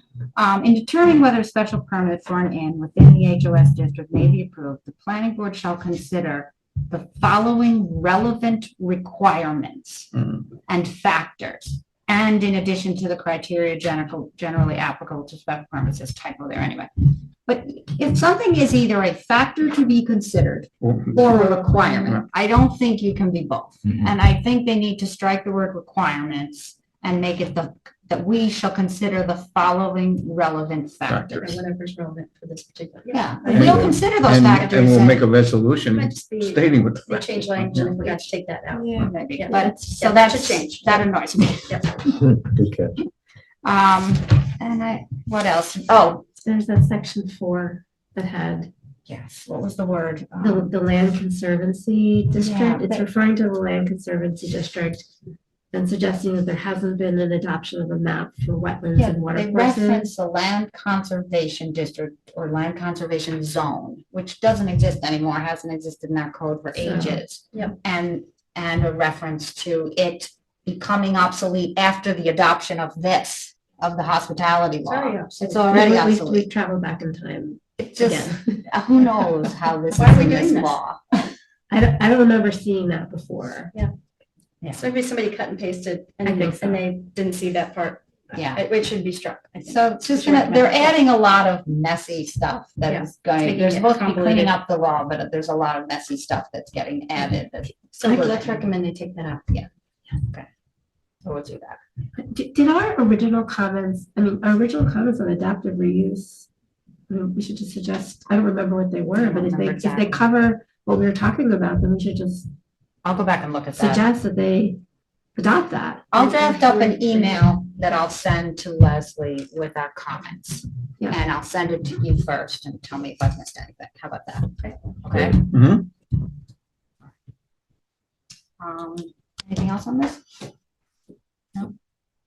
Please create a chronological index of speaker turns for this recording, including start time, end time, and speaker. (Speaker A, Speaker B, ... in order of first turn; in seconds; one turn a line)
Speaker A: 0.3-31.3
Speaker B: 20.9-21.4
Speaker B: 31.1-31.6
Speaker C: 31.3-35.2
Speaker A: 33.1-35.2
Speaker B: 33.5-37.9
Speaker C: 35.9-41.1
Speaker D: 38.7-39.9
Speaker A: 38.9-42.2
Speaker C: 41.7-42.0
Speaker B: 42.6-42.9
Speaker A: 43.6-46.2
Speaker D: 46.4-48.7
Speaker A: 49.1-50.7
Speaker D: 50.4-55.0
Speaker A: 52.4-53.0
Speaker D: 55.7-60.1
Speaker A: 59.0-76.5
Speaker D: 66.8-67.2
Speaker C: 74.9-75.4
Speaker D: 75.4-79.5
Speaker A: 77.8-81.0
Speaker C: 79.9-80.8
Speaker D: 81.7-83.7
Speaker C: 84.7-91.0
Speaker D: 86.2-86.8
Speaker A: 88.3-88.6
Speaker A: 89.6-98.6
Speaker C: 92.9-94.5
Speaker C: 97.9-99.5
Speaker A: 100.2-100.5
Speaker A: 101.2-101.8
Speaker D: 102.2-106.5
Speaker D: 107.1-112.5
Speaker A: 109.2-110.2
Speaker A: 113.0-114.0
Speaker D: 113.8-114.8
Speaker D: 115.3-116.4
Speaker A: 116.1-125.5
Speaker C: 116.2-117.4
Speaker B: 125.2-125.8
Speaker A: 128.6-130.2